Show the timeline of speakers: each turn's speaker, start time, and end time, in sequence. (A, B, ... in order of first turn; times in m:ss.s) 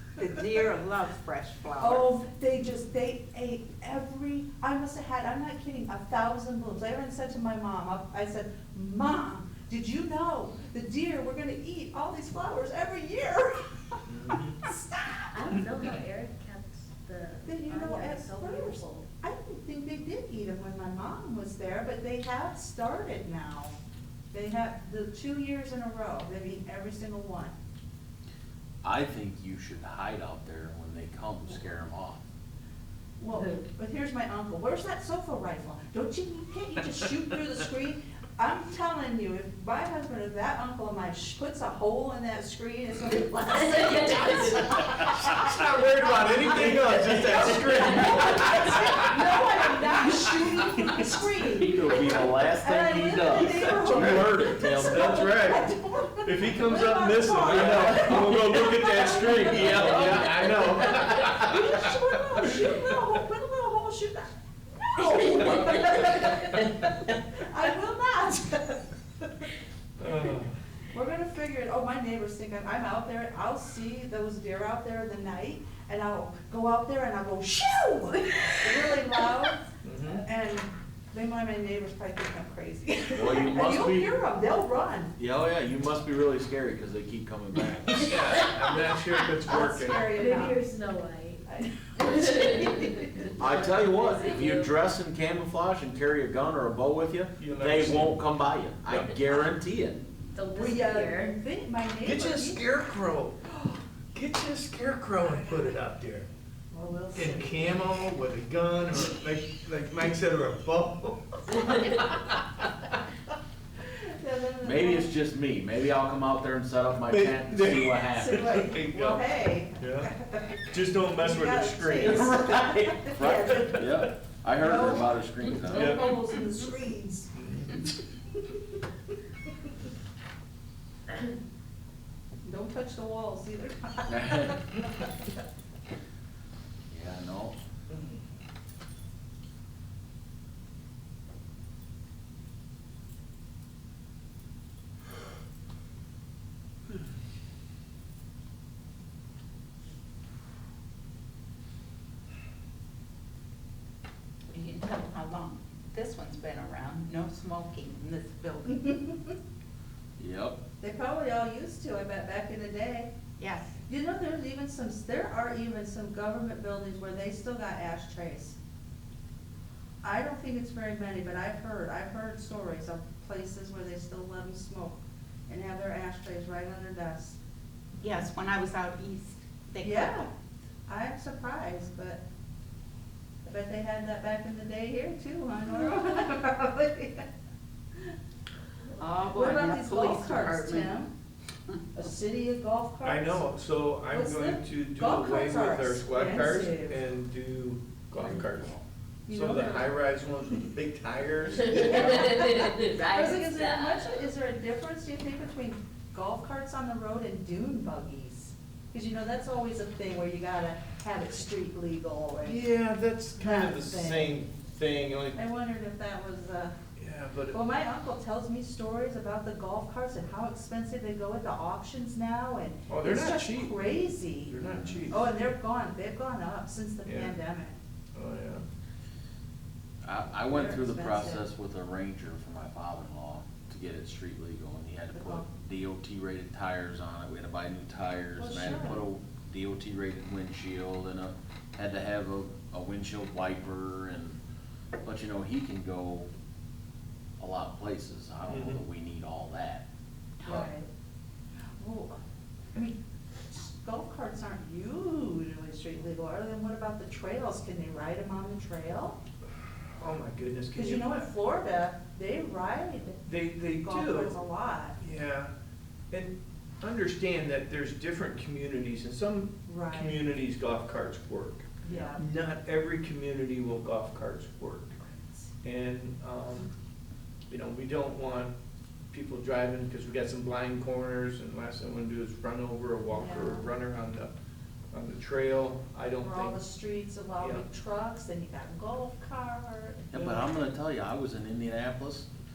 0:00.2-0:02.1 A
0:01.8-0:14.0 B
0:14.1-0:14.6 C
0:14.6-0:15.6 B
0:15.3-0:19.1 D
0:17.5-0:23.8 B
0:24.3-0:27.6 B
0:28.8-0:32.2 E
0:33.2-0:45.5 B
0:33.3-0:33.6 D
0:43.6-0:44.7 D
0:45.0-0:51.0 C
0:46.4-1:09.5 B
0:51.6-0:55.2 E
0:53.6-0:55.7 C
0:56.2-1:02.8 C
0:57.5-0:58.7 E
0:59.2-1:00.6 E
1:05.1-1:06.2 D
1:10.0-1:10.6 C
1:10.9-1:19.7 B
1:19.8-1:20.2 C
1:20.2-1:25.2 B
1:23.1-1:24.1 E
1:25.2-1:28.4 E
1:28.0-1:30.2 C
1:29.4-1:30.6 B
1:30.2-1:31.5 D
1:31.5-1:33.4 B
1:32.0-1:34.7 D
1:33.4-1:40.0 E
1:37.4-1:38.2 C
1:40.3-1:41.3 D
1:40.5-1:42.6 B
1:42.0-1:43.5 C
1:44.1-1:46.3 C
1:46.7-1:47.8 B
1:47.2-1:52.1 C
1:53.9-1:55.1 B
1:54.6-1:58.4 E
1:57.1-1:59.3 C
1:58.1-2:03.9 B
1:59.8-2:00.1 C
2:00.7-2:03.8 C
2:03.2-2:06.1 E
2:04.6-2:08.0 B
2:05.7-2:06.1 C
2:07.3-2:07.9 C
2:12.4-2:15.1 B
2:14.1-2:14.6 E
2:16.9-2:17.6 E
2:34.5-2:39.0 A
2:38.9-2:39.2 B
2:40.2-2:40.6 E
2:40.8-2:43.1 B
2:43.4-2:43.8 A
2:43.9-2:48.6 B
2:50.0-2:57.4 B
2:58.0-3:00.3 A
2:59.8-3:00.3 B
3:00.9-3:02.2 B
3:03.5-3:07.3 B
3:09.0-3:10.9 A
3:09.3-3:11.1 B
3:11.9-3:13.4 B
3:13.0-3:22.5 C
3:14.1-3:17.0 B
3:19.3-3:19.9 B
3:21.6-3:24.2 D
3:21.8-3:32.6 B
3:32.4-3:35.4 C
3:33.4-3:34.4 B
3:35.4-3:36.8 B
3:37.0-3:37.6 C
3:37.5-3:44.6 B
3:42.9-3:43.8 C
3:44.5-3:45.5 C
3:44.6-3:45.1 E
3:45.1-3:47.8 B
3:47.0-3:47.4 C
3:48.2-3:48.6 C
3:50.0-4:04.4 E
3:50.4-3:51.5 B
3:55.1-3:55.5 B
3:58.4-3:59.1 B
4:05.0-4:06.3 E
4:07.4-4:09.9 E
4:08.5-4:08.8 C
4:10.4-4:10.9 B
4:10.4-4:10.7 E
4:11.8-4:12.2 B
4:13.5-4:19.2 B
4:20.0-4:21.3 C
4:20.8-4:23.2 B
4:23.3-4:24.4 C
4:23.8-4:25.0 B
4:25.0-4:25.5 C
4:26.1-4:35.0 C
4:29.7-4:30.2 B
4:31.8-4:32.2 B
4:35.1-4:35.5 B
4:35.6-4:36.7 C
4:37.5-4:38.5 C
4:39.1-4:44.3 C
4:43.1-4:43.7 B
4:44.9-4:46.6 C
4:46.2-4:50.5 B
4:47.4-4:47.7 C
4:50.1-4:52.3 E